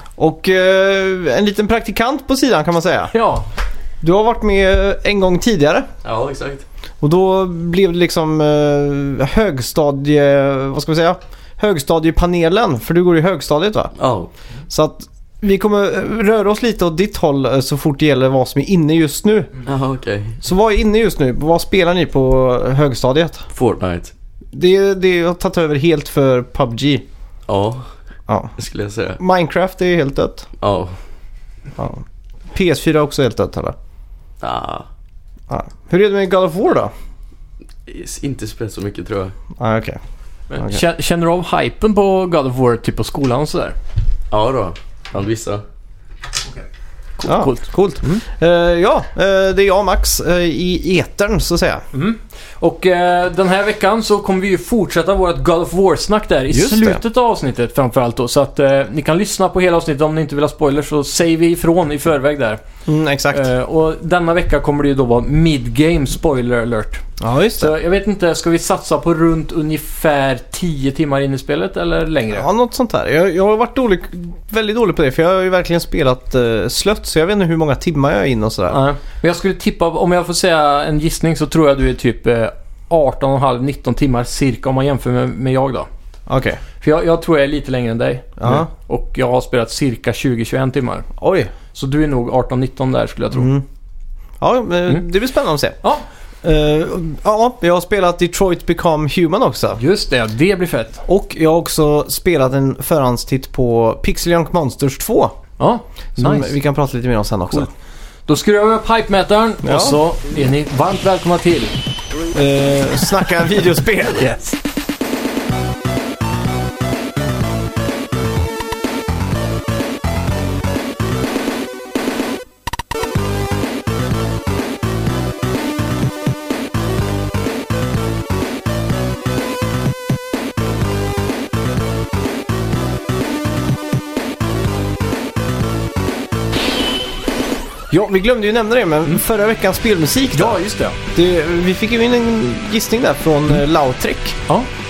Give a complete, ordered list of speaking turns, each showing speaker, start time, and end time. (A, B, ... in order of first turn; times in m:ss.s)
0:00.2-0:03.1 A
0:03.1-0:03.5 B
0:04.0-0:05.9 A
0:06.0-0:06.7 C
0:07.0-0:13.9 A
0:14.0-0:14.3 C
0:14.7-0:19.5 A
0:19.7-0:20.4 C
0:20.4-0:23.5 A
0:23.6-0:24.1 C
0:24.5-0:27.0 A
0:27.5-0:27.9 C
0:28.3-0:28.5 A
0:28.6-0:29.2 C
0:29.2-0:30.5 A
0:30.6-0:30.9 C
0:31.8-0:33.8 A
0:34.4-0:34.9 C
0:35.5-0:36.9 A
0:37.9-0:39.4 C
0:39.6-0:40.0 A
0:40.5-0:43.8 B
0:40.6-0:40.8 A
0:44.3-0:45.6 C
0:47.2-0:48.2 B
0:47.2-0:51.9 A
0:51.9-1:02.6 B
0:56.5-0:57.0 A
1:02.9-1:03.5 A
1:03.3-1:07.1 B
1:07.2-1:07.7 A
1:07.6-1:12.5 B
1:12.3-1:18.8 A
1:18.7-1:25.9 B
1:26.3-1:26.6 A
1:26.8-1:31.1 B
1:28.4-1:28.7 A
1:31.2-1:31.5 A
1:31.7-1:33.5 B
1:33.3-1:33.6 A
1:34.4-1:35.8 A
1:36.4-1:39.8 A
1:39.8-1:41.0 B
1:41.1-1:45.4 A
1:45.6-1:46.5 B
1:46.2-1:47.7 A
1:48.3-1:51.8 B
1:49.6-1:50.0 A
1:52.3-1:54.3 A
1:54.2-1:54.6 B
2:17.9-2:20.6 A
2:20.3-2:21.0 B
2:21.1-2:24.4 A